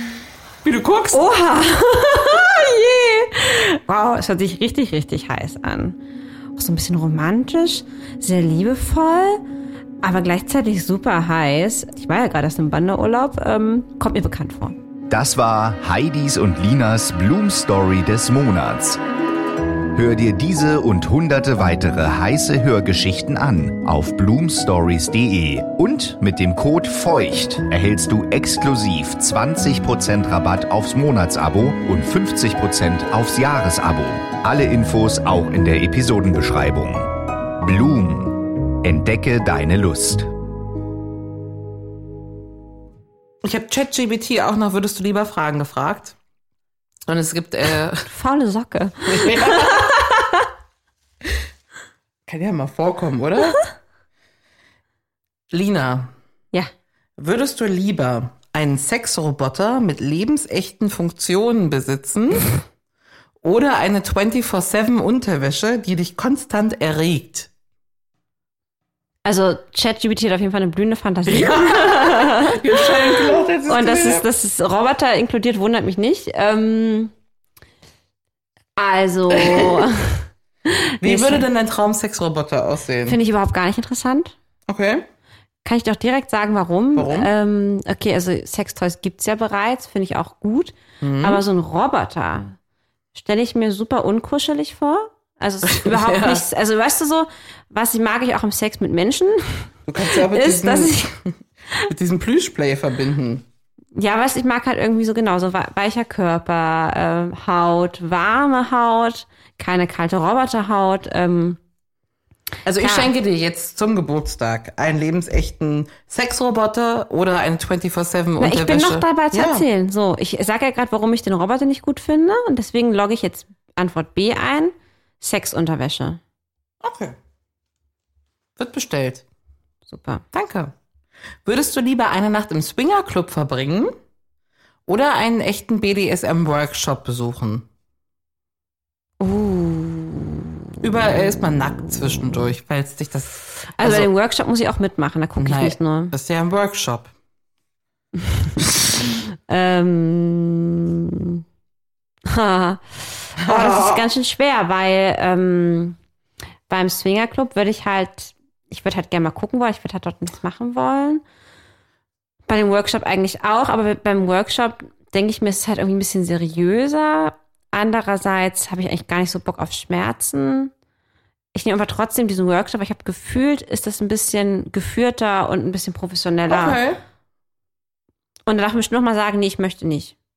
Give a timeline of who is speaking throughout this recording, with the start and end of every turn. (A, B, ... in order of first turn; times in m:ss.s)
0:00.6-0:01.2 A
0:01.1-0:06.0 B
0:06.6-0:09.4 B
0:10.0-0:14.8 B
0:15.1-0:19.0 C
0:19.9-0:40.3 C
0:43.4-0:46.2 A
0:47.1-0:48.1 A
0:48.1-0:50.5 B
0:49.1-0:50.0 A
0:52.3-0:53.6 A
0:55.5-0:56.1 A
0:57.2-1:02.5 A
1:03.4-1:07.5 A
1:09.2-1:17.1 B
1:11.3-1:14.3 A
1:18.8-1:21.4 B
1:19.3-1:19.9 A
1:21.0-1:23.2 A
1:23.1-1:24.4 B
1:24.7-1:25.1 A
1:25.6-1:32.6 B
1:27.0-1:27.3 A
1:31.0-1:31.4 A
1:33.2-1:41.2 B
1:35.6-1:36.4 A
1:39.9-1:41.3 A
1:41.8-1:43.4 A
1:44.0-1:51.6 B
1:52.7-1:59.7 A
1:52.8-1:53.1 B
1:58.4-2:06.2 B
2:06.8-2:07.2 A
2:08.6-2:09.2 A
2:09.9-2:10.2 B
2:10.3-2:10.7 A
2:11.4-2:14.0 A
2:14.9-2:17.6 A
2:19.2-2:20.5 B
2:20.8-2:24.1 A
2:23.8-2:26.1 B
2:25.4-2:27.1 A
2:29.5-2:31.4 B
2:32.3-2:36.0 B
2:33.4-2:34.1 A
2:36.7-2:41.2 B
2:42.5-2:50.7 B
2:51.5-2:56.8 B
2:56.5-2:57.0 A
2:58.5-3:00.2 B